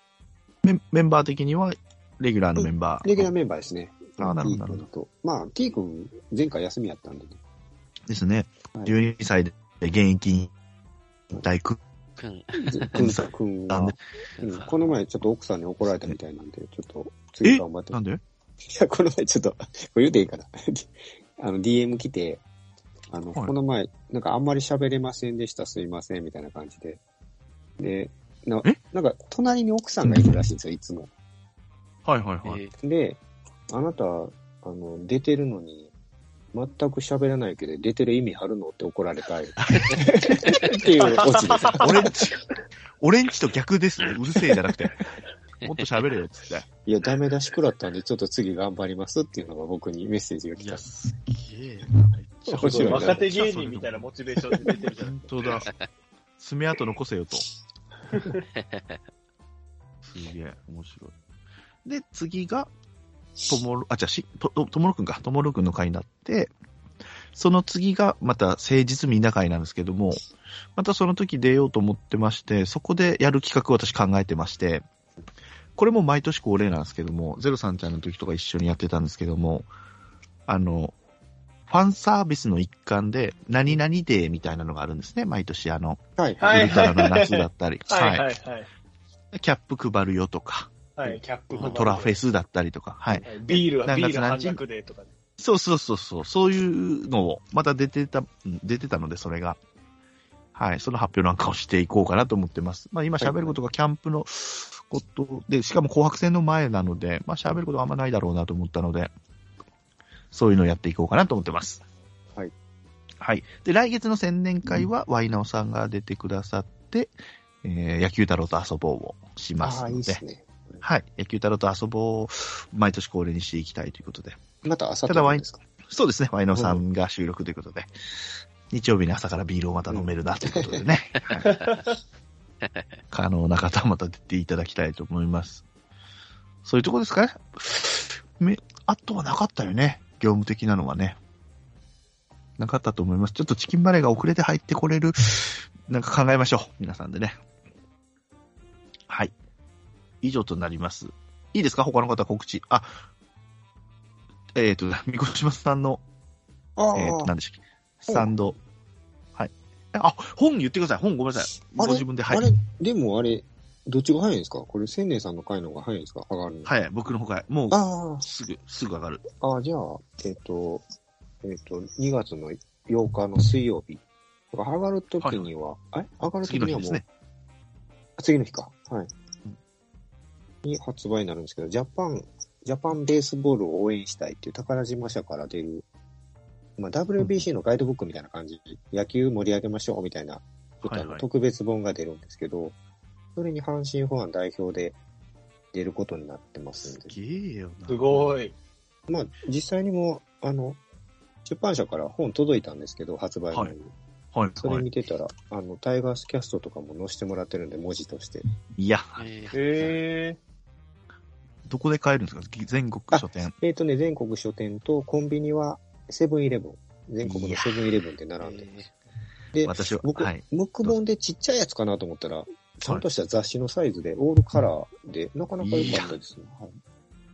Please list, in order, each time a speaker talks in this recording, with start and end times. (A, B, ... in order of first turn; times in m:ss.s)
0:00.6-0:03.3 A
0:02.6-0:07.4 B
0:04.2-0:04.8 A
0:08.1-0:10.5 A
0:11.3-0:11.8 A
0:12.2-0:12.9 C
0:12.6-0:18.0 B
0:12.9-0:13.9 A
0:14.3-0:14.9 C
0:17.4-0:18.2 A
0:18.6-0:22.4 B
0:23.1-0:27.0 B
0:27.8-0:31.1 B
0:32.0-0:32.6 A
0:32.4-0:32.7 C
0:32.8-0:35.9 B
0:36.5-0:42.1 B
0:39.6-0:40.8 A
0:41.0-0:41.8 D
0:41.8-0:42.4 A
0:43.0-0:45.0 A
0:45.6-0:46.6 A
0:46.8-0:50.8 B
0:50.6-0:54.1 A
0:52.5-0:53.2 B
0:52.6-0:55.3 D
0:55.0-0:55.7 A
0:56.4-0:57.4 A
0:58.1-0:58.3 D
0:58.5-0:59.0 C
1:00.0-1:01.1 A
1:01.8-1:02.7 A
1:03.5-1:06.5 A
1:07.3-1:10.2 A
1:10.8-1:14.8 A
1:15.8-1:19.7 A
1:20.5-1:20.9 A
1:21.7-1:28.2 A
1:26.2-1:26.8 B
1:26.4-1:28.7 D
1:29.3-1:30.7 A
1:31.0-1:32.2 D
1:31.0-1:31.9 B
1:31.6-1:34.6 A
1:33.2-1:35.1 D
1:35.4-1:39.6 A
1:40.5-1:49.1 A
1:43.2-1:43.6 B
1:50.3-1:51.8 A
1:53.2-2:00.2 A
1:59.6-2:00.8 B
2:00.8-2:04.4 A
2:04.6-2:05.6 B
2:05.1-2:07.9 A
2:06.5-2:06.8 B
2:08.7-2:11.6 A
2:09.9-2:10.8 B
2:11.4-2:11.7 C
2:11.5-2:11.8 D
2:13.1-2:15.6 A
2:16.6-2:21.2 A
2:22.6-2:27.4 A
2:29.1-2:29.3 A
2:30.2-2:33.0 A
2:34.5-2:36.0 A
2:36.8-2:37.3 B
2:36.9-2:38.6 A
2:38.1-2:38.3 B
2:39.4-2:42.5 A
2:41.7-2:46.7 B
2:46.6-2:49.2 A
2:47.7-2:48.2 B
2:49.4-2:50.8 B
2:51.4-2:54.0 B
2:54.5-2:57.0 B
2:55.2-2:55.4 A
2:56.4-2:57.0 A
2:58.2-2:59.1 B
3:00.6-3:05.8 B
3:06.8-3:12.8 B
3:07.2-3:07.4 A
3:10.8-3:11.2 A
3:13.4-3:15.0 B
3:15.7-3:17.1 B
3:16.8-3:18.4 A
3:17.9-3:18.5 D
3:19.1-3:20.8 B
3:21.4-3:23.9 B
3:23.5-3:23.8 A
3:24.3-3:24.8 A
3:24.6-3:28.4 B
3:28.8-3:29.3 A
3:29.2-3:29.9 C
3:29.5-3:30.4 D
3:31.6-3:33.5 A
3:33.1-3:38.7 B
3:37.2-3:37.7 A
3:38.4-3:38.9 C
3:39.5-3:46.8 B
3:39.6-3:41.0 A
3:45.6-3:46.1 A
3:45.8-3:46.2 C